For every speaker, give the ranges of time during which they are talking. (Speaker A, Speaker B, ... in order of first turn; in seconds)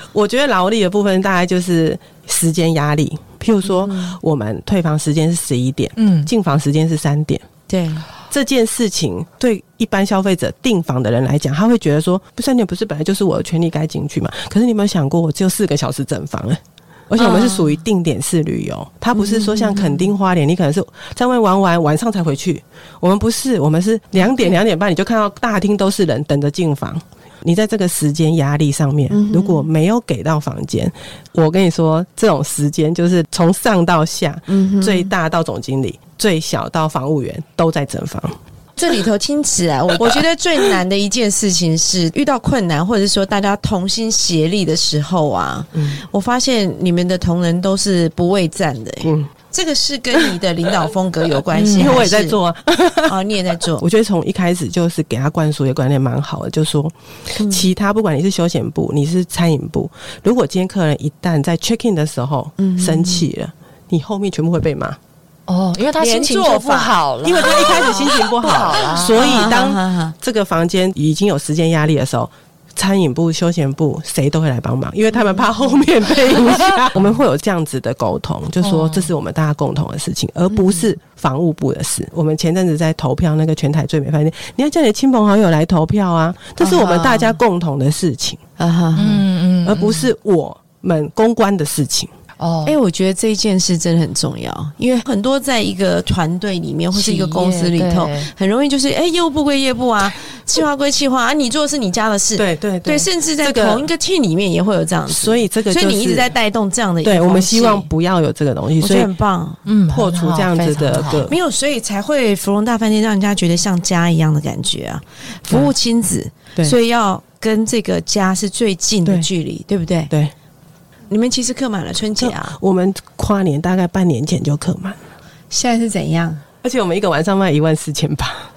Speaker A: 0.1-7.4, 8.3-38.4, 45.7-46.0, 49.0-49.3, 51.7-65.0, 67.2-88.4, 89.6-92.1, 102.3-103.9, 105.1-106.3, 107.0-109.1, 109.9-111.3, 122.2-125.0, 126.6-128.5
Speaker B: 3.6-4.2, 7.7-8.1, 17.2-17.7, 19.1-20.0, 29.1-29.7, 34.5-35.1, 38.8-52.4, 53.0-53.8, 57.4-57.7, 62.6-63.2, 66.0-67.0, 69.1-70.1, 86.6-87.3, 88.6-89.2, 92.6-107.9, 108.8-109.6, 111.2-120.1, 121.1-122.5, 125.5-126.4
Speaker C: 6.0-6.3, 51.5-52.1, 65.5-69.5, 78.6-79.1, 89.0-90.1, 92.4-92.8, 96.9-98.3, 109.7-111.3